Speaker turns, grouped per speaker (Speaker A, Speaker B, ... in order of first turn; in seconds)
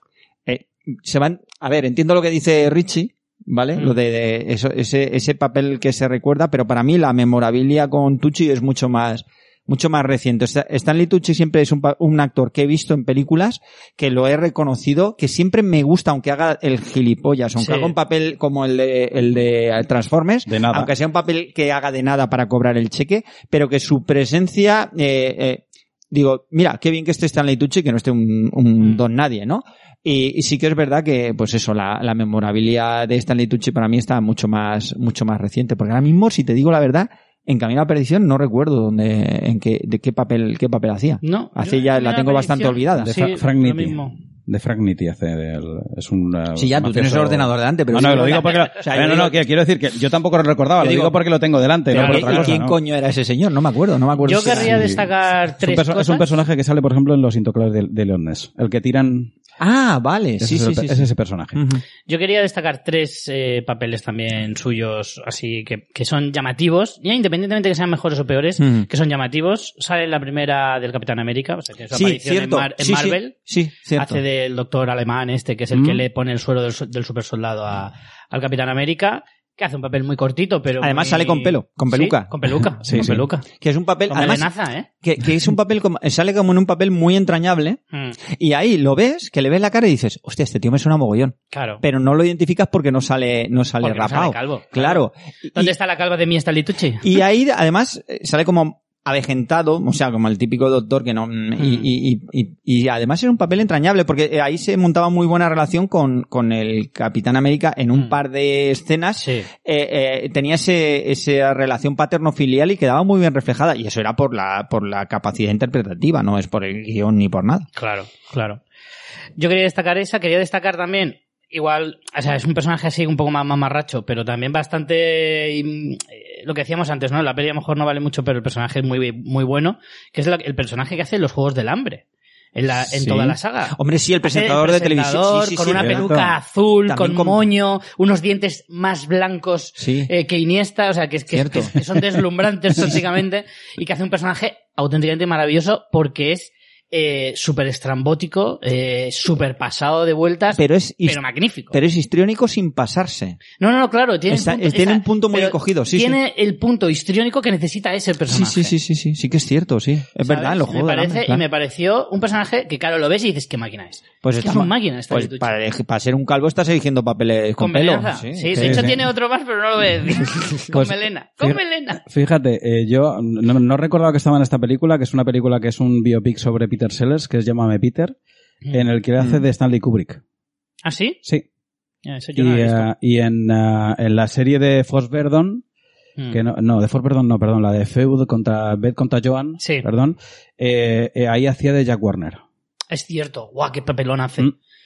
Speaker A: 0.5-43.2, 46.5-49.4, 50.8-51.2, 51.9-55.0, 59.6-61.8, 68.6-68.9, 71.9-74.2, 80.8-82.3, 83.6-84.5, 85.0-87.8, 88.3-95.7, 97.0-117.7, 133.7-136.1, 136.9-137.5, 139.8-140.1, 141.3-142.0, 150.6-153.4, 154.3-156.2, 158.3-161.4, 164.2-168.9
Speaker B: 17.6-17.9, 41.2-44.2, 48.1-48.8, 51.9-52.5, 54.2-56.3, 62.1-73.4, 74.0-83.5, 84.1-84.9, 91.5-91.8, 93.8-97.1, 101.6-101.9, 109.2-109.5, 117.8-118.6, 119.4-151.8, 153.6-158.7, 160.2-165.5, 167.6-172.0, 180.8-181.2, 182.1-182.9, 189.6-189.9, 192.9-194.5
Speaker C: 20.5-20.9, 43.0-52.8, 54.5-55.1, 55.6-59.3, 60.4-61.6, 75.7-76.0, 82.8-83.2, 135.8-136.3, 168.6-169.0, 170.7-178.2, 178.7-180.2, 182.4-185.6, 186.3-192.4